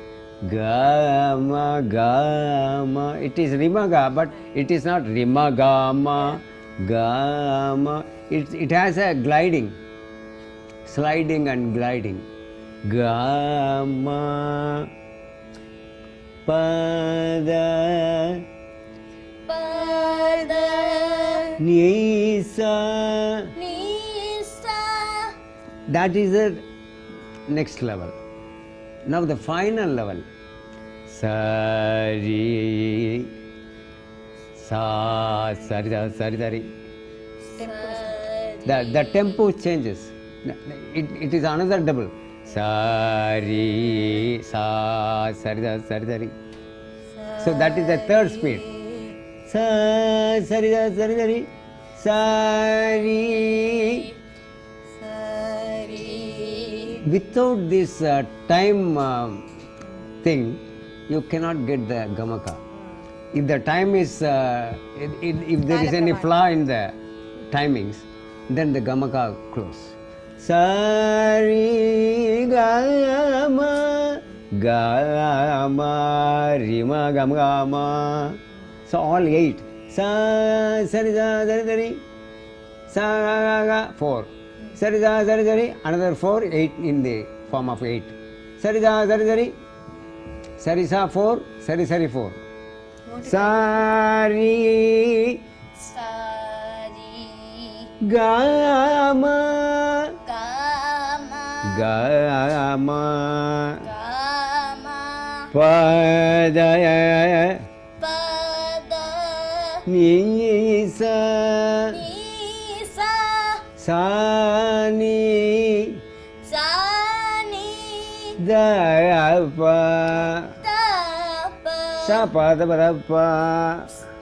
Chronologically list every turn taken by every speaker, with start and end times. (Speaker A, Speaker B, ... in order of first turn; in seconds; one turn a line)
Speaker A: 0.4-9.8
Speaker A: 10.9-12.2
Speaker A: 12.9-14.9
Speaker A: 16.4-18.4
Speaker B: 19.5-21.5
Speaker C: 19.7-21.6
Speaker A: 21.6-23.5
Speaker B: 23.6-25.4
Speaker A: 25.9-26.6
Speaker A: 27.5-28.1
Speaker A: 29.1-30.3
Speaker A: 31.1-33.3
Speaker A: 34.6-36.7
Speaker B: 37.5-39.4
Speaker C: 37.6-38.3
Speaker A: 38.6-46.3
Speaker C: 47.1-49.2
Speaker A: 47.4-48.6
Speaker A: 49.5-54.1
Speaker C: 55.0-57.0
Speaker B: 55.9-57.0
Speaker A: 57.0-59.5
Speaker A: 60.2-62.6
Speaker A: 63.3-66.9
Speaker C: 65.7-66.3
Speaker A: 67.5-82.0
Speaker A: 82.9-89.5
Speaker A: 90.6-92.4
Speaker C: 93.1-93.7
Speaker A: 93.2-95.4
Speaker B: 95.8-97.9
Speaker A: 98.0-100.2
Speaker B: 100.2-101.9
Speaker A: 101.6-103.9
Speaker B: 103.8-105.5
Speaker A: 105.5-107.6
Speaker B: 108.0-109.8
Speaker A: 109.9-112.0
Speaker B: 111.9-113.7
Speaker A: 113.8-116.0
Speaker B: 116.4-118.4
Speaker A: 118.4-120.6
Speaker B: 120.6-122.3
Speaker A: 122.0-124.0